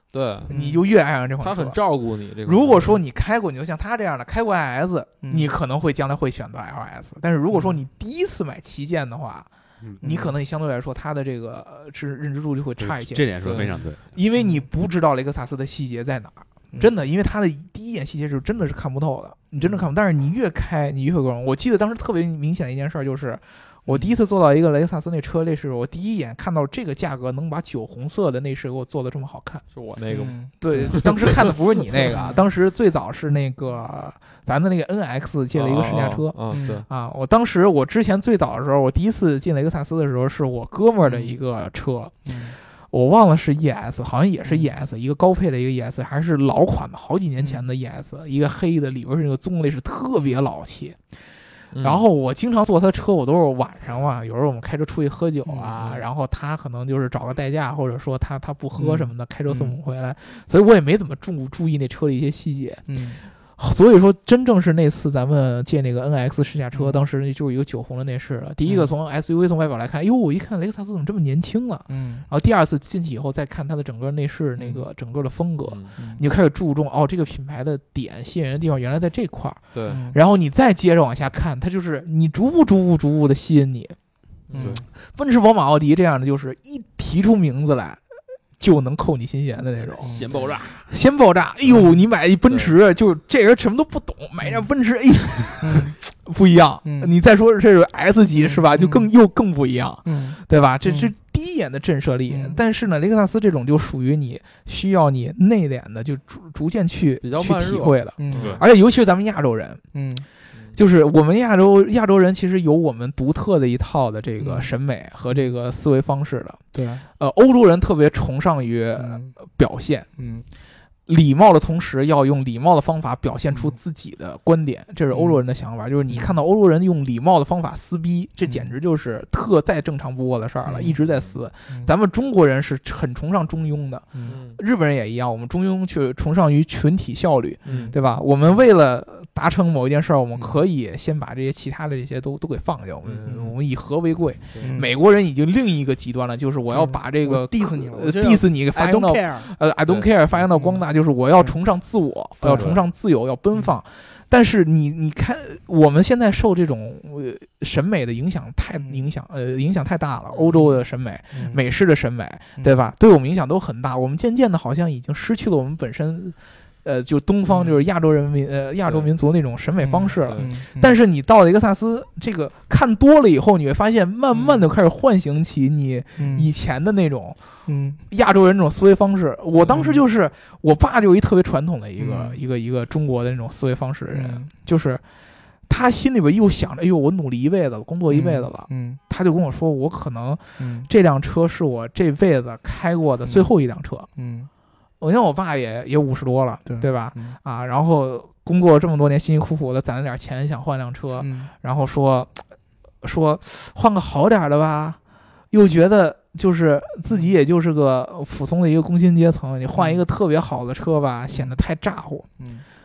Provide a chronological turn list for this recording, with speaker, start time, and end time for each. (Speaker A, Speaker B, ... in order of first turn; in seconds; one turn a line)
Speaker A: 0.1-0.5
Speaker B: 0.5-1.8
Speaker C: 0.5-0.8
Speaker A: 1.2-3.0
Speaker B: 2.4-9.5
Speaker C: 5.2-5.5
Speaker C: 7.5-7.8
Speaker C: 10.0-10.4
Speaker B: 10.0-29.6
Speaker D: 12.8-14.1
Speaker A: 13.4-13.8
Speaker C: 14.3-14.7
Speaker A: 29.7-31.5
Speaker C: 30.1-31.1
Speaker B: 30.6-84.0
Speaker C: 32.0-32.4
Speaker A: 35.5-36.9
Speaker C: 36.5-36.8
Speaker C: 41.0-41.3
Speaker C: 42.2-42.6
Speaker C: 44.4-44.7
Speaker C: 47.4-47.7
Speaker A: 51.7-52.0
Speaker C: 55.4-55.7
Speaker A: 55.7-56.1
Speaker C: 58.7-59.7
Speaker C: 62.9-63.2
Speaker C: 66.7-67.0
Speaker C: 68.6-68.9
Speaker C: 71.9-72.2
Speaker C: 74.6-74.9
Speaker A: 75.6-76.0
Speaker C: 76.0-76.2
Speaker A: 79.7-80.0
Speaker C: 79.9-80.2
Speaker A: 84.5-84.8
Speaker B: 84.5-88.0
Speaker C: 84.6-84.8
Speaker B: 88.6-90.2
Speaker D: 90.0-90.9
Speaker C: 90.0-90.3
Speaker B: 90.8-109.8
Speaker C: 91.7-92.0
Speaker A: 92.4-92.7
Speaker C: 94.4-94.7
Speaker C: 95.6-96.0
Speaker C: 96.8-97.1
Speaker C: 98.3-99.1
Speaker C: 100.0-101.1
Speaker C: 102.3-102.6
Speaker A: 107.2-108.6
Speaker C: 108.2-108.5
Speaker D: 108.4-108.6
Speaker C: 109.9-110.2
Speaker A: 110.5-110.8
Speaker B: 110.7-116.6
Speaker C: 114.4-114.7
Speaker C: 115.3-115.5
Speaker C: 116.7-117.0
Speaker B: 117.1-120.1
Speaker C: 119.0-119.3
Speaker C: 120.2-120.5
Speaker B: 121.1-177.4
Speaker C: 123.5-123.8
Speaker C: 125.1-125.4
Speaker C: 126.1-126.3
Speaker C: 128.4-128.7
Speaker C: 130.6-130.9
Speaker A: 130.9-131.4
Speaker C: 131.7-131.9
Speaker A: 134.2-134.6
Speaker A: 137.7-137.9
Speaker C: 137.7-138.0
Speaker C: 140.3-140.6
Speaker A: 143.0-143.4
Speaker C: 143.2-143.6
Speaker A: 144.5-144.8
Speaker C: 144.6-144.9
Speaker C: 146.7-149.5
Speaker C: 150.5-150.8
Speaker C: 152.4-152.7
Speaker C: 158.8-159.1
Speaker A: 160.3-160.6
Speaker C: 161.3-161.6
Speaker C: 162.6-162.8
Speaker C: 167.4-167.8
Speaker C: 169.8-171.0
Speaker A: 170.2-170.5
Speaker C: 174.3-174.6
Speaker C: 176.2-176.5
Speaker C: 177.7-178.0
Speaker B: 178.1-185.0
Speaker A: 179.6-179.8
Speaker C: 179.7-180.0
Speaker C: 182.0-182.4
Speaker C: 184.1-184.5
Speaker B: 185.7-194.1
Speaker C: 188.1-189.0
Speaker C: 190.6-190.9
Speaker C: 193.2-193.5
Speaker C: 194.2-194.5
Speaker B: 195.0-202.5
Speaker C: 196.7-197.4
Speaker C: 201.2-201.5
Speaker B: 203.0-205.0
Speaker B: 205.5-212.3
Speaker C: 209.7-210.0
Speaker C: 211.3-211.6
Speaker C: 212.4-212.6